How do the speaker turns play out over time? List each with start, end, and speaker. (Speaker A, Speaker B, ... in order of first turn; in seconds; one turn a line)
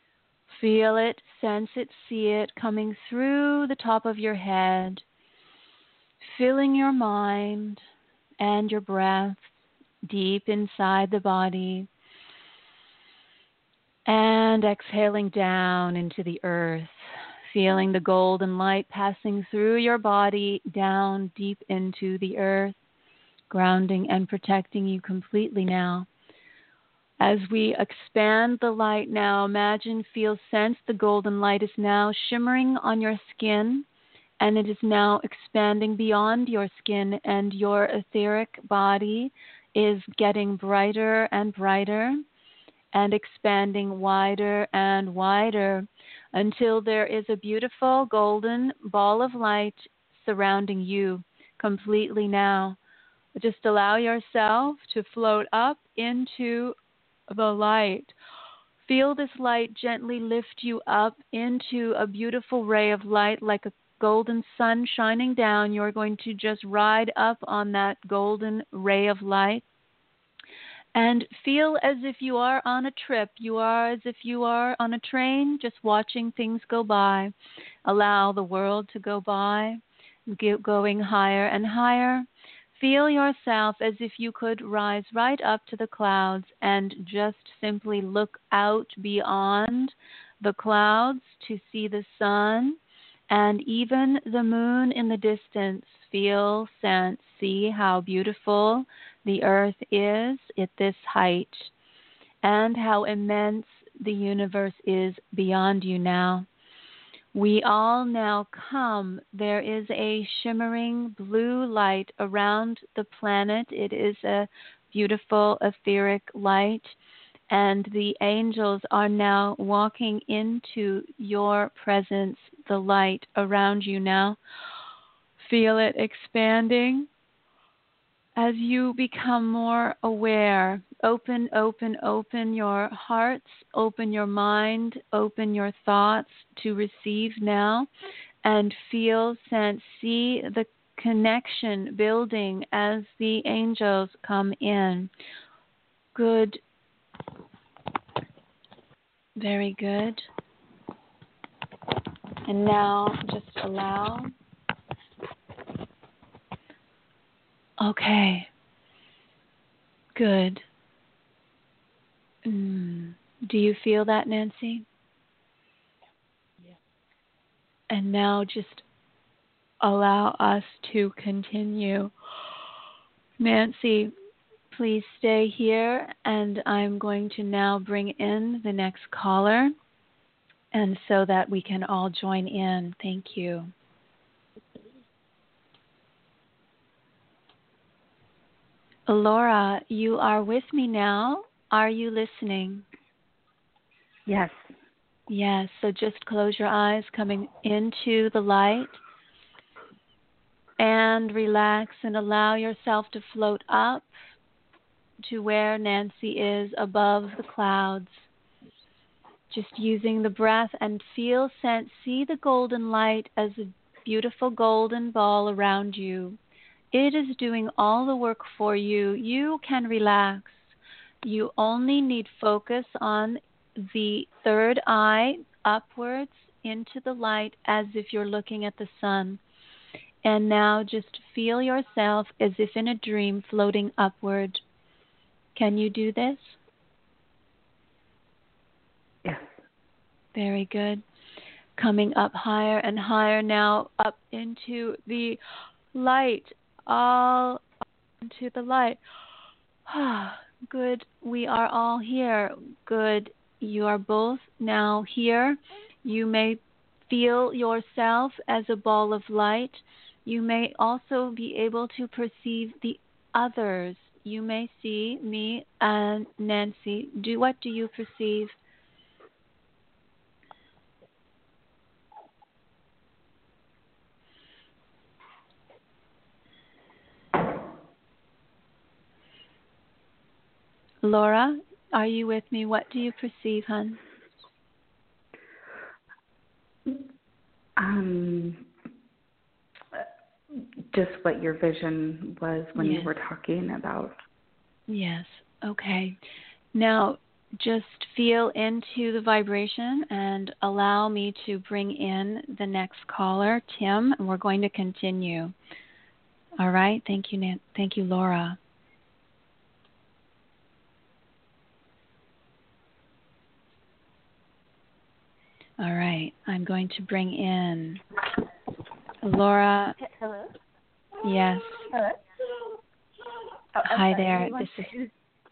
Speaker A: 0.5-5.0
Speaker A: 6.2-7.8
Speaker A: 8.4-9.5
Speaker A: 10.0-11.9
Speaker A: 14.1-22.8
Speaker A: 23.5-26.1
Speaker A: 27.2-33.9
Speaker A: 34.4-42.2
Speaker A: 42.9-52.8
Speaker A: 53.4-56.8
Speaker A: 57.3-58.1
Speaker A: 58.9-69.6
Speaker A: 71.0-77.3
Speaker A: 77.8-92.8
Speaker A: 93.3-101.7
Speaker A: 102.4-106.5
Speaker A: 107.3-117.0
Speaker A: 117.5-124.4
Speaker A: 125.4-127.1
Speaker A: 128.4-137.9
Speaker A: 138.4-145.1
Speaker A: 146.2-146.6
Speaker A: 149.4-150.3
Speaker A: 152.5-154.3
Speaker A: 157.8-158.5
Speaker A: 160.2-160.6
Speaker A: 162.4-164.8
Speaker A: 167.9-168.8
Speaker A: 169.8-172.1
Speaker A: 173.4-174.1
Speaker A: 174.7-179.7
Speaker A: 180.7-183.7
Speaker A: 189.1-192.9
Speaker B: 194.3-194.7
Speaker A: 195.3-199.0
Speaker A: 200.8-204.1
Speaker A: 205.2-208.3
Speaker A: 209.5-216.4
Speaker A: 216.9-229.4
Speaker A: 230.2-234.6
Speaker A: 235.6-236.6
Speaker B: 239.2-239.6
Speaker A: 240.3-241.0
Speaker A: 241.8-245.4
Speaker A: 245.9-247.6
Speaker A: 248.2-249.0
Speaker A: 249.9-268.6
Speaker A: 281.0-284.0
Speaker B: 287.8-288.7
Speaker B: 289.9-294.2
Speaker A: 292.8-293.1
Speaker A: 294.9-296.2
Speaker A: 296.7-305.5
Speaker A: 306.6-308.6
Speaker A: 315.8-318.0
Speaker A: 319.2-320.0
Speaker C: 320.0-320.5
Speaker A: 321.2-321.9
Speaker C: 321.9-322.2
Speaker A: 323.9-324.9
Speaker C: 323.9-325.1